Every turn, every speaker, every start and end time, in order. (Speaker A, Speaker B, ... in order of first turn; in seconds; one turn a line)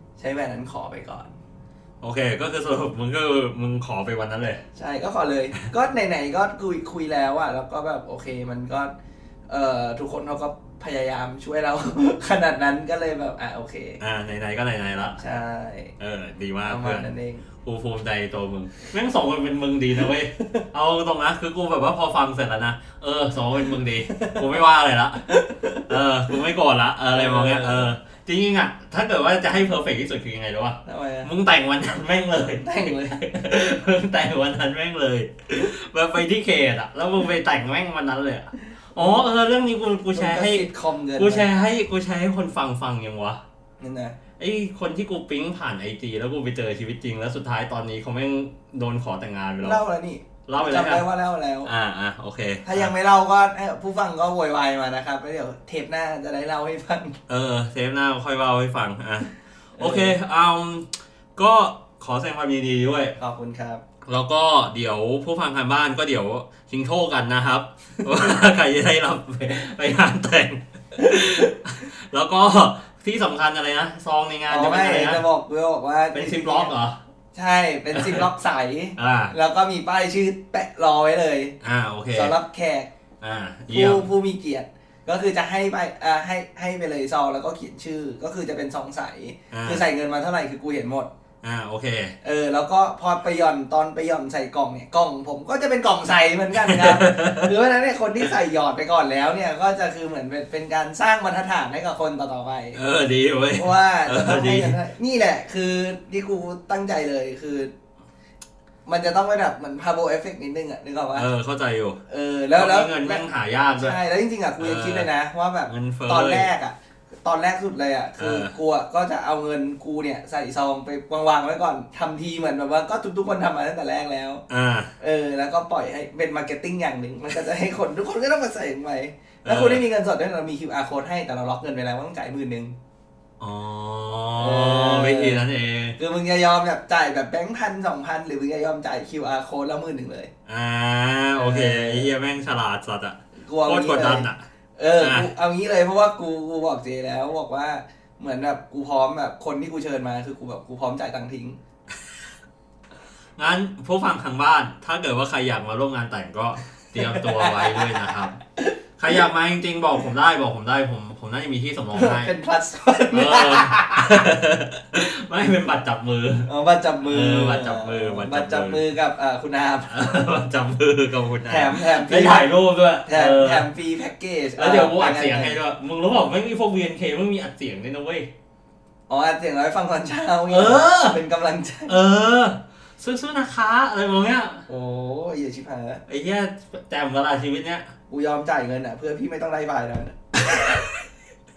Speaker A: 0.2-1.4
Speaker B: 2.0-4.6
Speaker A: 4.8-8.9
Speaker A: 9.5-14.0
Speaker B: 14.0-15.2
Speaker A: 15.2-15.9
Speaker B: 16.0-17.1
Speaker A: 16.6-17.4
Speaker B: 17.6-25.3
Speaker A: 24.1-24.5
Speaker A: 25.3-25.8
Speaker B: 25.8-43.4
Speaker A: 27.1-27.9
Speaker A: 30.8-31.3
Speaker A: 32.6-33.2
Speaker A: 39.0-39.2
Speaker A: 40.1-41.5
Speaker A: 43.8-44.2
Speaker B: 44.4-49.8
Speaker A: 49.6-51.7
Speaker B: 50.5-51.0
Speaker B: 51.6-52.9
Speaker A: 52.6-57.2
Speaker B: 57.3-63.2
Speaker A: 59.8-60.2
Speaker A: 63.2-63.8
Speaker B: 64.0-75.2
Speaker A: 74.5-76.7
Speaker B: 76.1-77.0
Speaker A: 77.3-81.6
Speaker B: 77.9-78.3
Speaker B: 79.0-79.3
Speaker B: 81.6-82.3
Speaker A: 82.1-82.9
Speaker B: 83.2-84.1
Speaker A: 83.7-91.1
Speaker B: 89.5-89.8
Speaker B: 91.4-92.2
Speaker A: 92.2-102.8
Speaker B: 96.5-97.5
Speaker B: 102.7-104.8
Speaker A: 103.5-107.7
Speaker A: 108.8-111.3
Speaker B: 111.2-112.0
Speaker A: 112.1-113.2
Speaker B: 112.5-114.0
Speaker A: 113.8-124.4
Speaker B: 114.6-115.1
Speaker B: 115.7-116.5
Speaker B: 118.2-118.5
Speaker B: 124.5-124.9
Speaker A: 125.0-132.8
Speaker B: 129.4-129.8
Speaker B: 133.4-136.0
Speaker A: 134.4-135.4
Speaker A: 136.0-140.3
Speaker B: 140.5-144.4
Speaker A: 141.3-142.1
Speaker A: 143.4-151.6
Speaker B: 145.0-145.3
Speaker B: 153.4-158.4
Speaker A: 157.0-158.7
Speaker B: 159.0-162.3
Speaker A: 161.9-164.3
Speaker B: 163.1-166.5
Speaker A: 166.4-170.0
Speaker B: 167.0-168.8
Speaker B: 169.9-173.7
Speaker A: 171.5-172.5
Speaker A: 173.0-175.6
Speaker B: 174.6-178.3
Speaker A: 179.1-182.0
Speaker B: 180.5-181.2
Speaker B: 181.9-184.7
Speaker A: 184.7-186.0
Speaker B: 186.1-187.9
Speaker A: 188.1-190.7